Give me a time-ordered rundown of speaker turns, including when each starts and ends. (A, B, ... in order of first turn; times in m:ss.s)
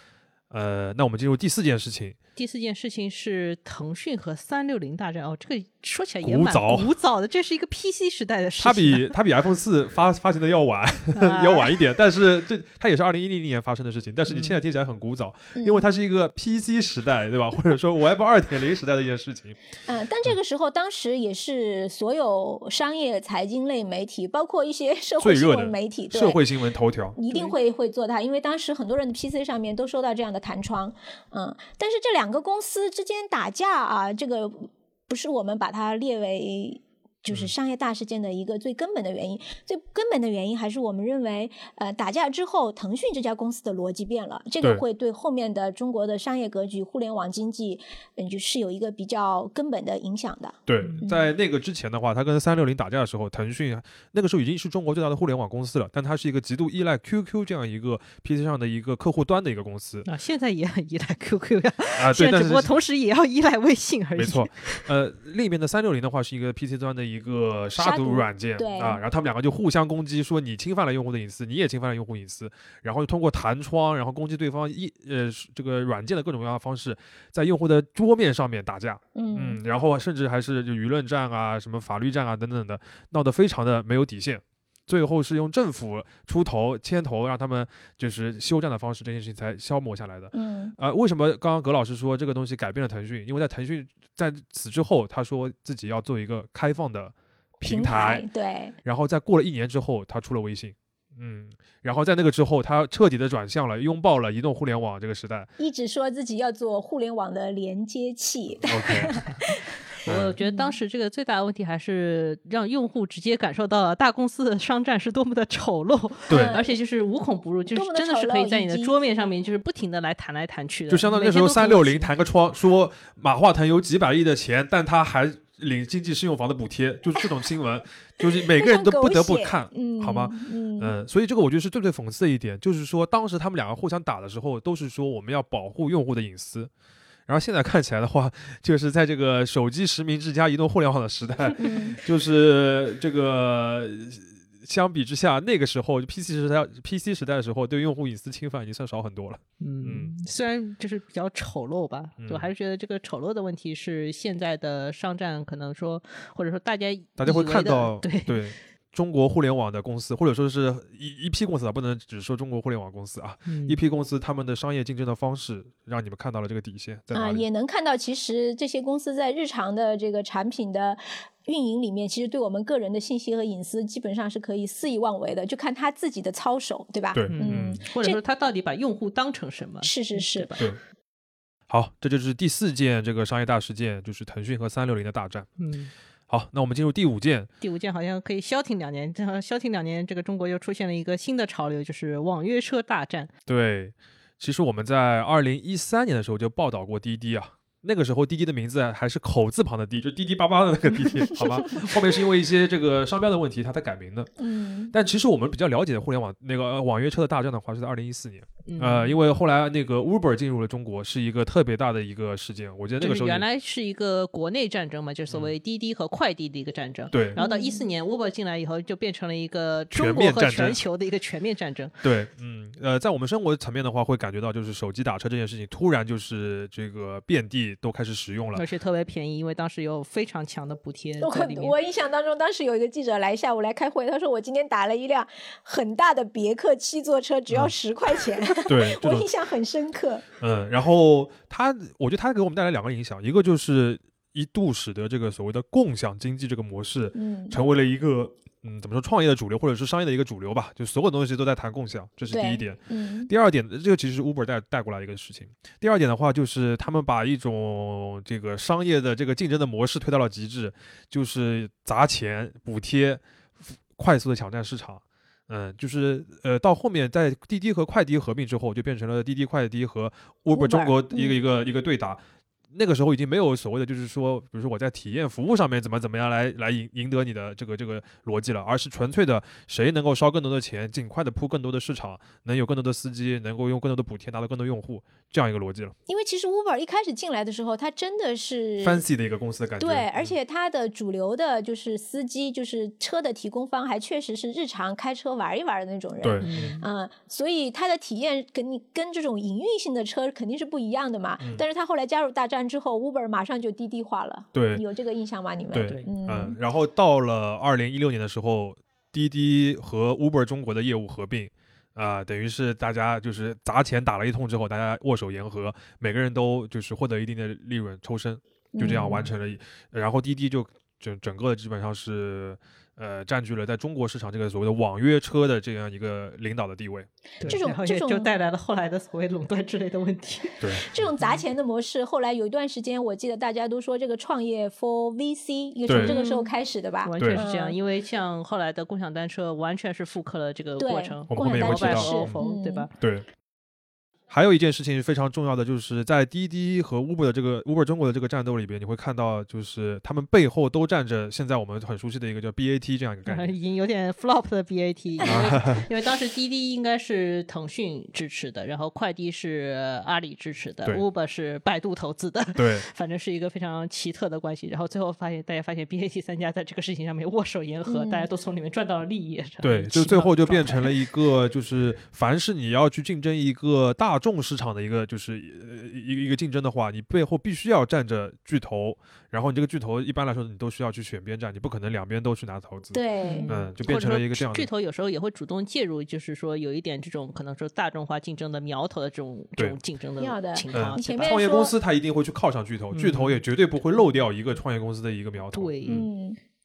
0:00.5-0:02.2 A
0:02.4-0:09.1 B
0:06.2-0:06.9 A
0:08.6-0:19.6 A
0:11.1-0:11.8 B
0:14.3-0:14.6 B
0:15.5-0:15.8 C
0:19.8-0:26.4 C
0:25.2-0:27.2 A
0:27.2-0:51.2 C
0:50.7-1:00.1 A
1:00.0-1:04.9 B
1:02.0-1:02.7 A
1:04.2-1:38.2 A
1:07.8-1:09.0 C
1:19.1-1:19.6 C
1:30.3-1:30.7 C
1:37.6-1:38.7 C
1:38.8-1:45.5 A
1:45.6-1:49.5 C
1:48.6-1:49.2 A
1:50.0-2:02.1 B
1:50.0-1:50.3 A
1:50.4-1:50.7 C
1:56.3-1:56.6 A
1:56.3-1:56.8 C
1:57.7-1:58.9 C
2:00.9-2:16.7 A
2:08.2-2:10.9 C
2:17.3-2:30.1 A
2:21.6-2:22.0 C
2:29.6-2:38.4 B
2:32.2-2:32.5 A
2:37.2-2:47.4 A
2:43.4-2:43.8 B
2:47.1-2:58.2 C
2:57.1-2:57.8 A
2:57.3-3:00.6 B
2:59.8-3:00.5 C
3:01.7-3:05.5 A
3:05.6-3:05.9 B
3:06.3-3:07.5 A
3:07.6-3:13.3 B
3:13.5-3:24.3 A
3:24.4-3:24.9 C
3:24.9-3:33.4 A
3:28.6-3:29.2 B
3:33.0-3:42.0 B
3:37.1-3:37.4 A
3:37.4-3:37.9 C
3:39.9-3:40.8 A
3:42.0-3:48.6 A
3:48.5-3:51.8 B
3:51.2-4:00.2 C
3:58.7-3:59.3 A
4:00.4-4:12.8 A
4:07.1-4:07.6 C
4:12.3-4:13.3 C
4:13.3-4:23.2 A
4:23.7-4:32.2 A
4:30.5-4:31.4 C
4:32.7-4:45.9 A
4:46.1-4:49.0 C
4:48.8-4:50.3 A
4:49.8-5:06.6 C
4:56.2-4:56.8 A
4:56.4-4:56.8 B
5:04.5-5:04.8 A
5:05.7-5:27.6 A
5:18.7-5:19.0 C
5:18.8-5:19.3 B
5:27.4-5:31.4 B
5:27.4-5:28.3 C
5:30.6-5:30.9 A
5:30.9-5:37.8 C
5:35.9-5:36.1 A
5:36.0-5:36.5 B
5:37.0-5:42.9 B
5:37.2-5:37.4 A
5:40.8-5:42.9 C
5:41.3-5:42.4 A
5:43.0-5:43.2 A
5:44.3-5:53.5 A
5:53.2-6:11.0 B
5:55.2-5:55.8 A
6:02.6-6:02.8 A
6:07.8-6:08.3 C
6:09.6-6:24.7 A
6:22.9-6:23.5 C
6:23.2-6:31.3 B
6:30.2-6:31.7 C
6:30.7-6:36.0 A
6:32.9-6:33.4 B
6:35.5-6:36.1 B
6:35.9-6:36.4 C